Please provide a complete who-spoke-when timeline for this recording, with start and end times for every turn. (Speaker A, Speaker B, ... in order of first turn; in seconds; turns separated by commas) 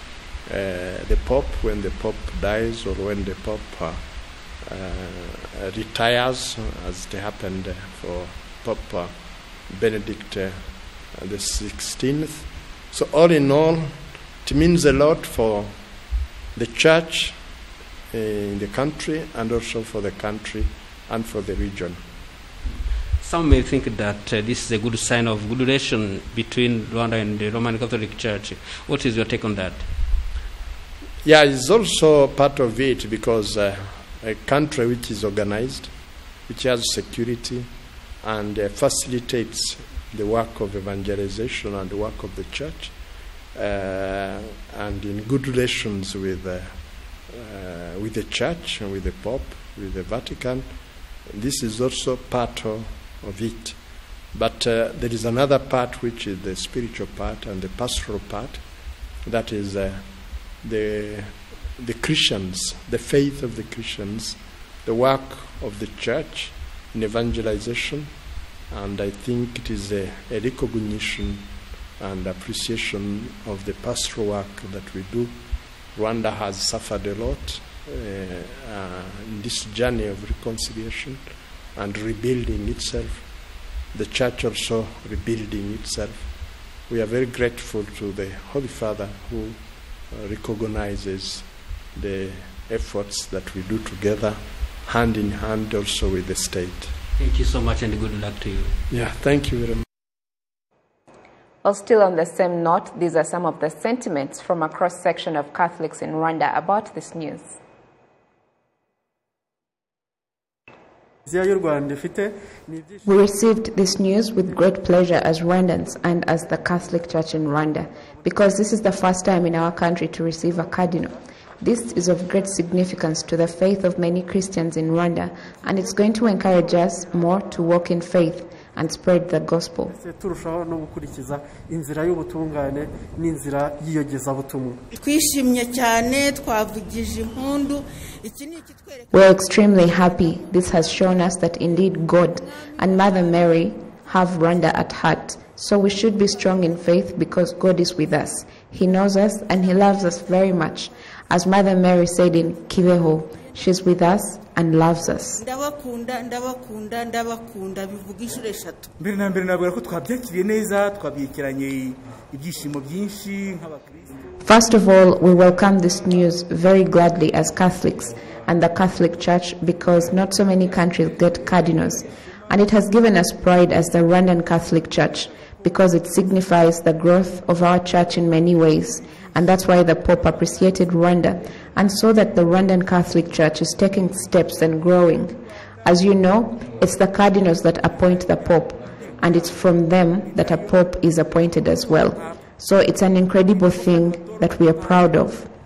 Speaker A: 0.4-15.7, Speaker A: 16.5-17.4, Speaker A: 18.1-22.0, Speaker B: 23.2-29.9, Speaker A: 31.2-96.9, Speaker B: 97.2-98.8, Speaker A: 98.9-99.8, Speaker C: 101.6-107.6, Speaker D: 111.2-113.0, Speaker C: 113.0-129.9, Speaker D: 129.9-134.8, Speaker E: 134.9-139.2, Speaker C: 139.1-155.4, Speaker E: 155.4-158.9, Speaker F: 159.0-164.2, Speaker C: 164.4-195.5, Speaker F: 188.1-189.6, Speaker F: 190.2-190.8, Speaker F: 191.7-192.4, Speaker F: 193.8-194.9